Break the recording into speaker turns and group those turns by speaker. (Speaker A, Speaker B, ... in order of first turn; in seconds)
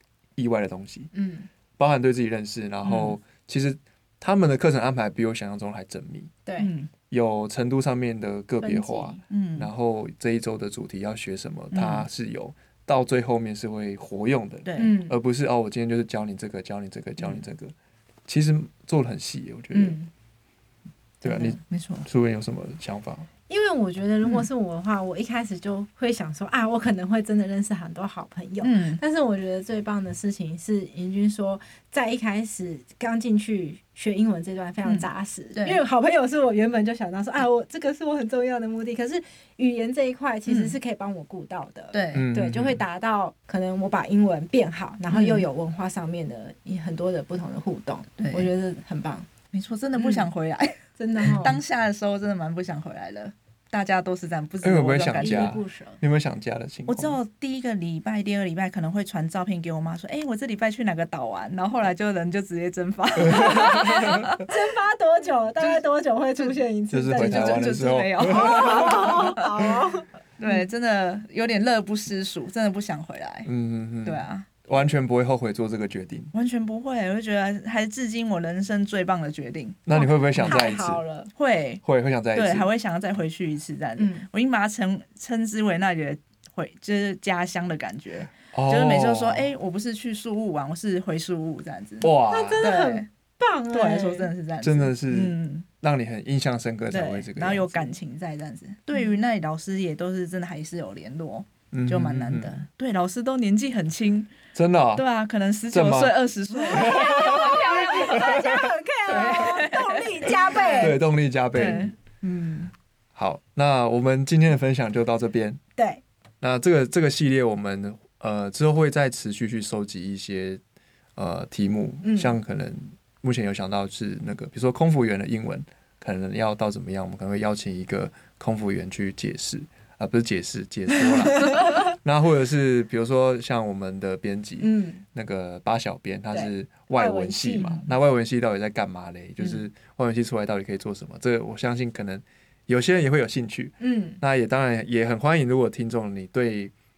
Speaker A: 0.4-1.1, 1.8-6.3, 7.1-17.7, 18.3-20.0, 21.2-23.3, 42.1-42.8, 51.2-51.5, 54.6-57.2, 63.3-64.2, 66.9-69.2, 73.4-76.3, 79.8-81.0, 81.8-82.7, 88.5-89.5, 92.0-92.7, 94.6-98.0, 101.7-102.6, 104.5-105.0, 105.7-106.1, 106.7-109.7, 110.6-111.9, 113.1-115.6, 116.4-120.6, 121.2-146.7
Speaker B: 1.1-1.5, 2.8-3.1, 6.5-6.7, 8.6-9.2, 14.8-15.2, 19.7-20.1, 23.5-49.3, 50.0-50.3, 51.0-51.6, 55.2-56.0, 63.3-70.0, 79.9-81.3, 84.0-84.2, 92.3-94.3, 106.6-111.0, 122.0-122.3, 134.6-135.0, 136.3-137.8, 143.8-144.2
Speaker C: 6.6-6.9, 9.3-9.7, 11.7-12.0, 14.6-15.0, 21.2-22.1, 24.2-24.5, 28.6-29.0, 34.8-35.8, 40.5-40.7, 41.9-42.3, 45.1-45.5, 48.2-48.5, 49.5-55.5, 56.9-64.5, 67.1-69.7, 70.4-73.5, 74.0-74.5, 76.3-80.7, 81.3-81.8, 82.3-93.1, 93.7-95.7, 96.9-104.3, 105.0-108.4, 109.1-111.0, 111.5-112.7